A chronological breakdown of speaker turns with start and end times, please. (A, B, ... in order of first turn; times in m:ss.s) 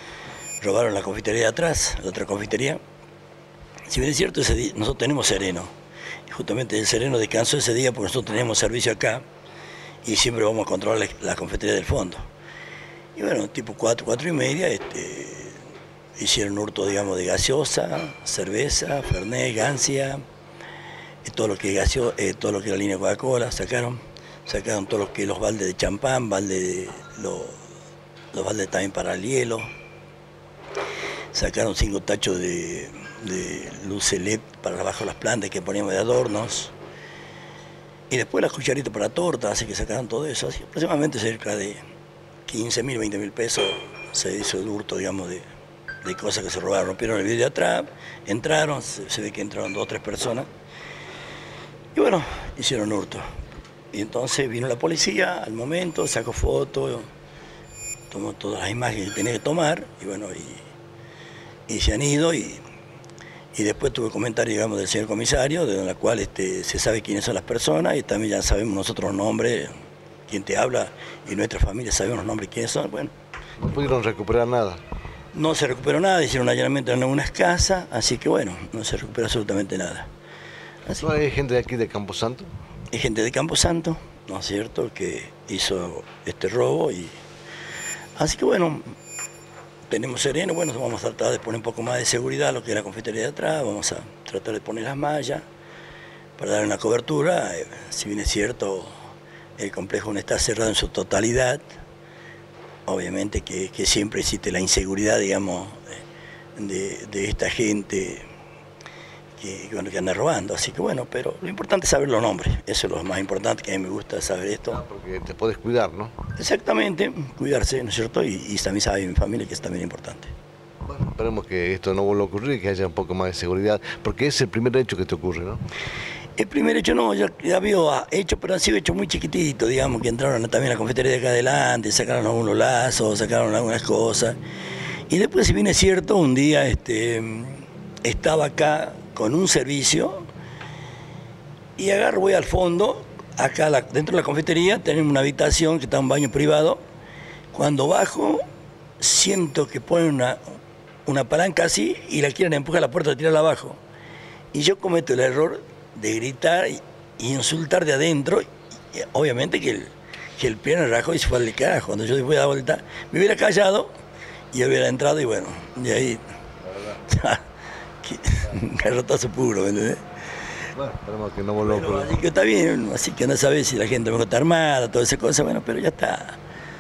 0:00.6-0:02.8 A
0:03.9-0:05.7 A
0:06.3-0:09.2 A
0:10.0-0:12.2 A
0:13.2-0:15.6 A
0:16.2-0:20.2 A
0:21.2-0:27.6 A
0:28.3-0:29.7 A
0:31.3-0:36.7 A
0:38.1-0:41.8 A
0:42.5-0:45.4 A
0:46.0-0:50.5 A
0:52.0-0:53.2 A
0:53.9-0:57.1 A
0:58.1-1:00.6 A
1:01.7-1:02.6 A
1:03.5-1:09.7 A
1:10.3-1:13.1 A
1:13.6-1:14.8 B
1:15.3-1:20.1 A
1:21.0-1:22.5 B
1:22.9-1:27.1 A
1:28.2-1:29.0 A
1:29.9-1:35.4 A
1:36.4-1:38.9 A
1:39.6-1:41.7 A
1:42.9-1:46.0 A
1:46.6-1:48.2 A
1:49.4-1:54.8 A
1:54.7-1:56.2 B
1:56.4-2:00.3 A
2:00.9-2:05.6 B
2:06.4-2:14.4 A
2:15.1-2:20.3 A
2:21.8-2:26.8 A
2:27.5-2:28.4 A
2:29.0-2:30.4 A
2:31.1-2:33.8 A
2:34.5-2:43.9 A
2:44.5-2:46.2 A
2:46.9-2:47.4 A
2:48.0-2:50.0 A
2:50.7-2:52.2 B
2:51.6-2:56.4 A